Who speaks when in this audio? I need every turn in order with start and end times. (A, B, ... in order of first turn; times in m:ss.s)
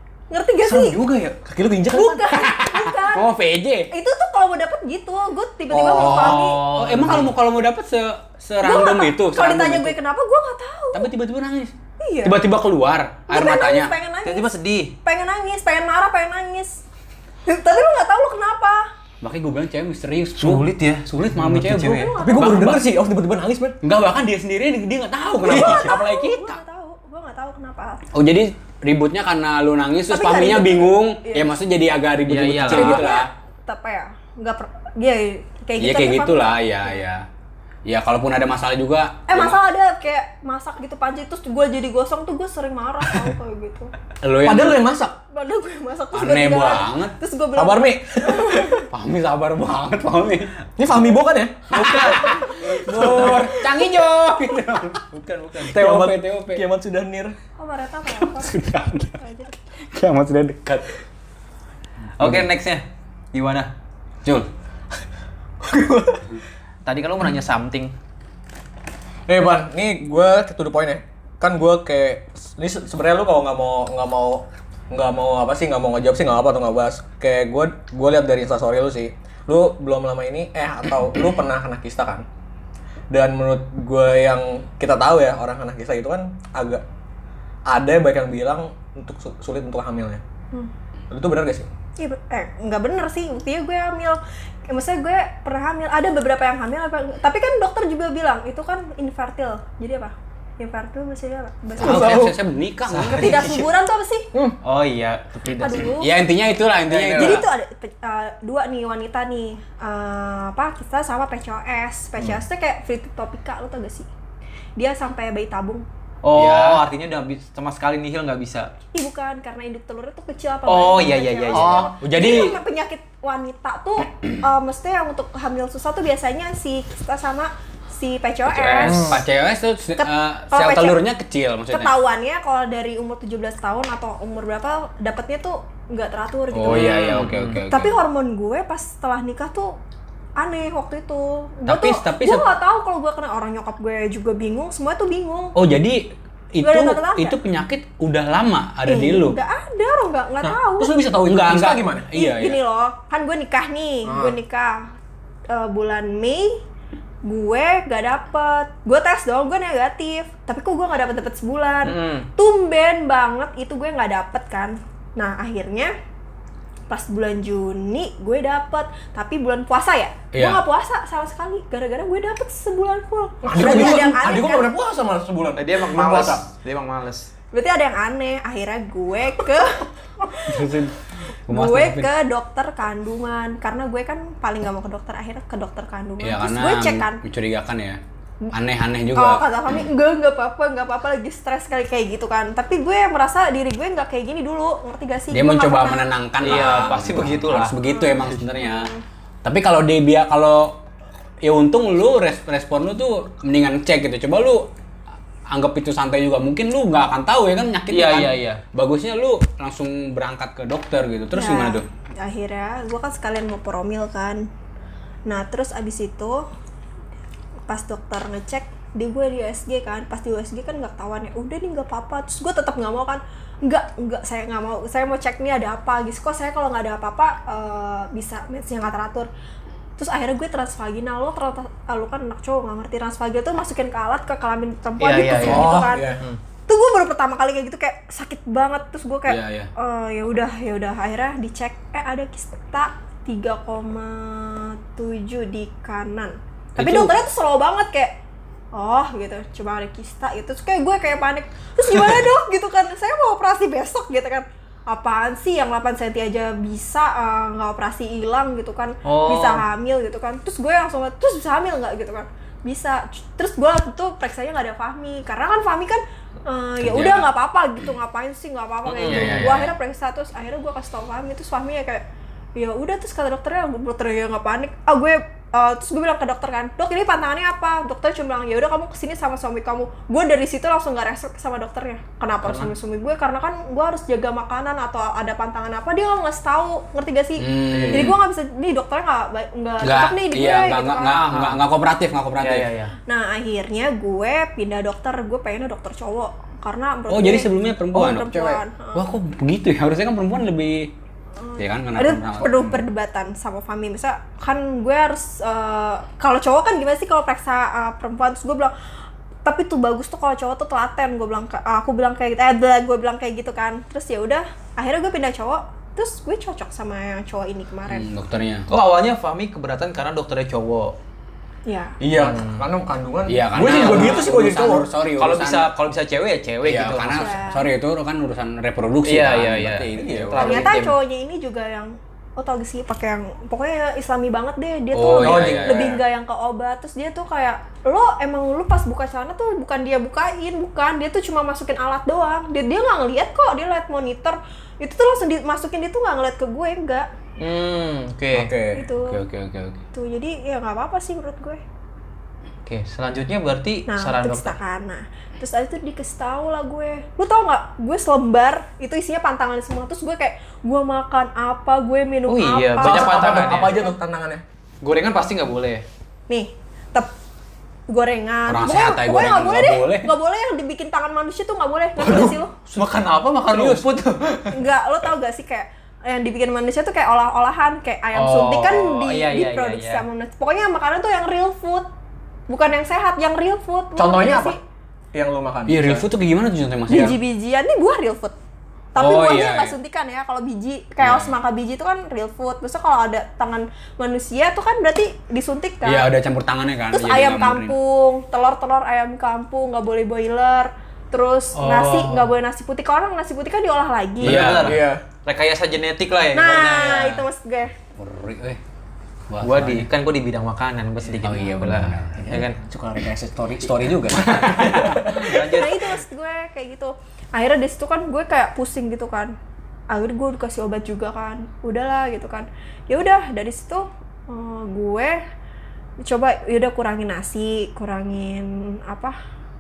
0:00.3-0:01.0 A
0:00.6-0:01.4 B
0:01.4-0:02.3 C
0:01.9-0:03.3 A
0:02.3-0:03.9 D
0:03.9-0:06.6 A
0:05.7-0:06.3 C
0:06.0-0:09.9 D
0:06.0-0:07.3 B
0:08.6-0:11.1 A
0:10.9-0:11.7 D
0:12.0-0:12.4 A
0:12.2-0:13.9 D
0:13.3-0:14.5 A
0:14.2-0:14.9 B
0:15.0-0:16.8 A
0:17.5-0:18.9 A
0:19.2-0:22.8 D
0:20.4-0:22.2 B
0:21.9-0:22.7 A
0:22.2-0:23.8 C
0:23.8-0:26.6 D
0:25.4-0:26.0 C
0:25.4-0:28.0 A
0:28.1-0:33.3 D
0:30.1-0:31.5 A
0:32.3-0:33.0 B
0:32.7-0:37.0 A
0:35.8-0:37.2 D
0:37.9-0:39.6 D
0:39.3-0:43.9 A
0:44.2-0:44.8 D
0:44.4-0:45.1 C
0:45.3-0:48.9 A
0:46.1-0:47.2 D
0:47.6-0:48.8 C
0:48.9-0:50.5 D
0:50.8-0:51.6 C
0:51.7-0:53.6 B
0:51.7-0:55.0 D
0:55.1-0:55.9 B
0:55.7-0:56.6 D
0:55.7-0:57.4 C
0:57.6-0:58.6 A
0:58.1-0:59.2 D
0:59.2-0:59.5 A
0:59.8-1:01.0 D
1:02.2-1:03.7 B
1:02.2-1:02.5 D
1:05.6-1:06.3 C
1:06.8-1:07.9 B
1:09.3-1:22.2 C
1:23.1-1:26.8 C
1:27.7-1:30.2 C
1:31.1-1:31.7 C
1:32.0-1:42.3 A
1:41.8-1:42.4 C
1:41.8-1:43.5 D
1:42.9-1:43.7 B
1:43.1-1:44.3 A
1:44.6-1:45.9 B
1:45.6-1:46.1 A
1:45.9-1:47.5 D
1:46.9-1:47.4 C
1:47.2-1:54.1 A
1:54.8-1:55.8 A
1:56.2-1:58.7 B
1:56.3-1:56.8 D
1:58.9-2:09.1 A
2:00.7-2:01.9 B
2:01.5-2:02.6 D
2:08.5-2:11.9 D
2:08.8-2:09.2 C
2:10.0-2:11.0 A
2:11.7-2:19.8 A
2:16.5-2:17.9 D
2:16.7-2:17.6 B
2:20.4-2:25.6 A
2:21.7-2:22.5 D
2:25.6-2:29.4 D
2:26.6-2:27.4 A
2:28.8-2:30.9 A
2:30.4-2:32.1 C
2:31.2-2:32.6 D
2:32.1-2:34.9 A
2:34.0-2:34.4 C
2:35.5-2:36.6 A
2:37.2-2:45.9 A
2:41.8-2:42.3 B
2:46.9-2:54.7 A
2:50.3-2:50.6 D
2:53.4-2:56.4 C
2:53.6-2:54.1 D
2:55.6-2:57.3 B
2:57.5-3:00.7 A
3:00.4-3:01.0 D
3:01.5-3:02.1 D
3:01.5-3:07.2 A
3:06.2-3:08.0 D
3:08.5-3:09.8 D
3:09.1-3:16.0 A
3:15.3-3:18.9 D
3:16.4-3:17.8 B
3:17.9-3:19.0 A
3:19.4-3:20.8 D
3:21.4-3:24.7 D
3:25.5-3:31.8 D
3:27.9-3:28.6 B
3:31.3-3:34.5 A
3:35.2-3:36.4 A
3:37.7-3:49.3 A
3:50.0-3:56.1 A
3:55.0-3:56.4 B
3:55.4-3:56.2 C
3:56.7-4:08.1 A
3:59.3-3:59.7 D
4:06.8-4:07.1 D
4:08.7-4:32.0 A
4:19.0-4:19.6 B
4:26.8-4:27.3 D
4:28.8-4:29.6 B
4:29.0-4:29.7 D
4:32.6-4:51.3 A
4:42.4-4:42.7 B
4:47.4-4:48.2 D
4:47.7-4:48.1 B
4:49.8-4:52.7 D
4:51.2-4:51.6 B
4:52.4-4:52.9 B
4:53.1-4:59.0 A
4:57.1-5:00.9 D
5:01.4-5:08.7 A
5:01.6-5:02.8 D
5:09.4-5:18.1 A
5:17.9-5:18.7 D
5:18.7-5:21.0 B
5:21.7-5:22.0 A
5:22.0-5:24.9 C
5:22.1-5:22.7 B
5:23.3-5:25.7 D
5:23.6-5:24.3 B
5:25.2-5:27.4 B
5:26.6-5:30.7 D
5:27.1-5:27.7 A
5:29.0-5:31.0 B
5:30.0-5:30.6 C
5:30.4-5:47.1 A
5:34.9-5:36.0 D
5:35.2-5:36.0 C
5:47.4-5:48.5 B
5:48.3-5:48.8 C
5:48.7-5:49.2 A
5:49.0-5:49.8 D
5:49.9-5:51.6 A
5:52.7-5:54.6 B
5:53.9-6:04.0 A
6:02.3-6:03.8 B
6:02.8-6:04.4 C
6:04.8-6:05.8 B
6:06.3-6:07.1 A
6:07.9-6:12.5 A
6:08.5-6:10.1 D
6:12.0-6:14.6 B
6:12.7-6:13.9 D
6:14.5-6:21.9 A
6:18.2-6:20.0 B
6:22.5-6:24.6 A
6:24.0-6:24.6 C
6:25.1-6:26.0 C
6:25.7-6:27.2 D
6:26.9-6:28.3 A
6:29.0-6:36.1 A
6:29.0-6:29.8 D
6:31.0-6:31.3 D
6:35.8-6:37.8 D
6:36.9-6:44.4 A
6:41.5-6:42.3 B
6:44.2-6:47.2 B
6:44.2-6:44.8 D
6:44.3-6:45.0 C
6:46.3-6:47.7 A
6:48.0-6:48.6 D
6:49.3-6:49.9 D
6:49.4-6:52.6 B
6:51.0-6:52.2 D
6:52.2-6:55.4 C
6:54.2-6:56.0 B
6:54.3-6:55.2 D
6:55.5-6:59.3 A
6:59.9-7:05.2 A
7:06.0-7:09.2 A